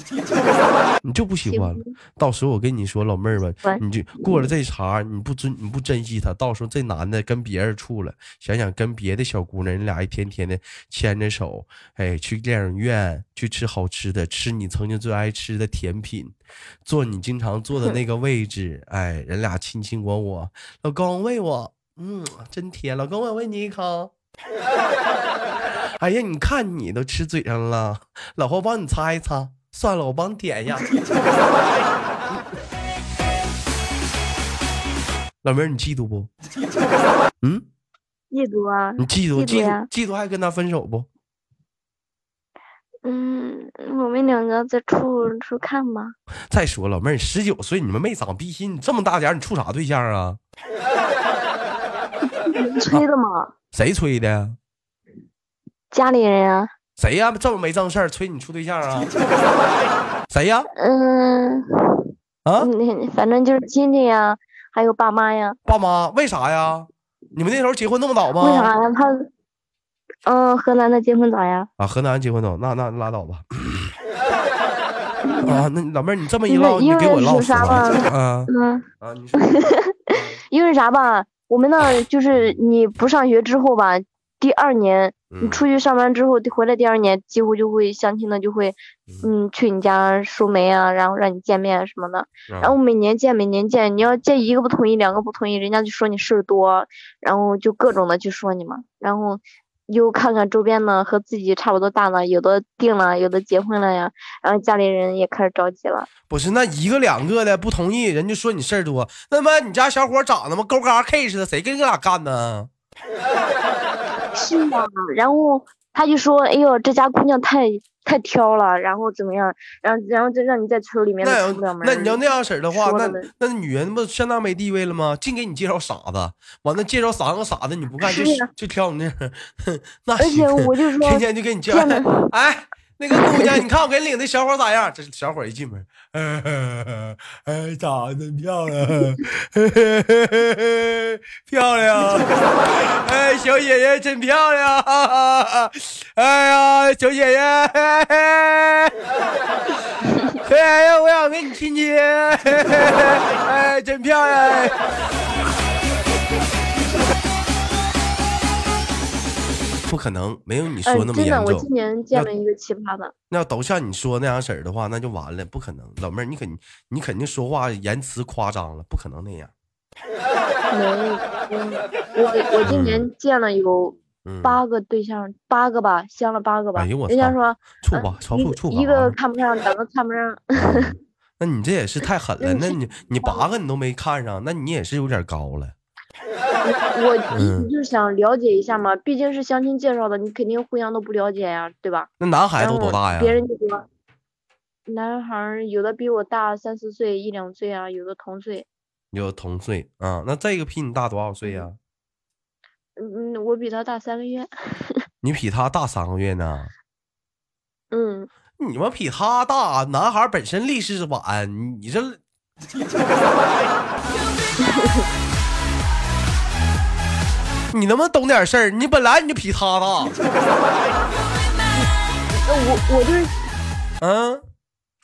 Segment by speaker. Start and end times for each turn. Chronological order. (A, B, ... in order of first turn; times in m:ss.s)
0:00.3-0:01.9 A
0:01.0-0:24.1 B
0:03.6-0:04.5 A
0:26.0-0:30.9 B
0:35.4-0:36.3 B
0:38.3-0:39.9 A
0:39.0-0:41.1 B
0:43.0-0:46.1 A
0:46.5-0:50.4 B
0:52.3-0:53.5 A
0:53.7-0:54.6 B
0:55.9-0:56.7 A
0:57.0-0:59.1 B
1:00.3-1:00.7 B
1:00.8-1:02.0 A
1:02.4-1:02.7 B
1:02.6-1:05.6 A
1:05.6-1:08.7 B
1:08.4-1:09.3 A
1:10.2-1:11.7 A
1:11.8-1:13.9 B
1:15.3-1:15.6 A
1:15.4-1:18.5 B
1:16.5-1:18.8 A
1:19.0-1:19.6 B
1:19.4-1:46.1 A
1:20.1-1:20.4 B
1:22.3-1:22.6 B
1:25.3-1:25.6 B
1:32.5-1:32.8 B
1:46.3-1:52.7 B
1:54.3-2:02.2 A
2:01.2-2:28.9 B
2:02.7-2:03.3 A
2:08.0-2:08.5 A
2:10.2-2:12.3 A
2:13.1-2:13.6 A
2:30.4-2:34.8 B
2:39.8-2:42.3 B
2:40.8-2:43.1 A
2:43.3-2:49.5 B
2:50.7-3:00.9 A
2:52.6-2:53.0 B
2:54.2-2:54.6 B
2:56.8-2:59.1 B
3:00.5-3:05.7 B
3:02.4-3:03.4 A
3:06.6-3:13.9 A
3:07.3-3:07.7 B
3:12.2-3:13.4 B
3:14.9-3:18.6 A
3:19.1-3:21.8 B
3:23.0-3:25.0 A
3:25.2-3:26.7 B
3:27.9-3:28.3 A
3:28.6-3:32.2 B
3:34.6-3:35.0 A
3:37.7-3:40.2 B
3:41.7-3:43.4 A
3:44.0-3:44.4 B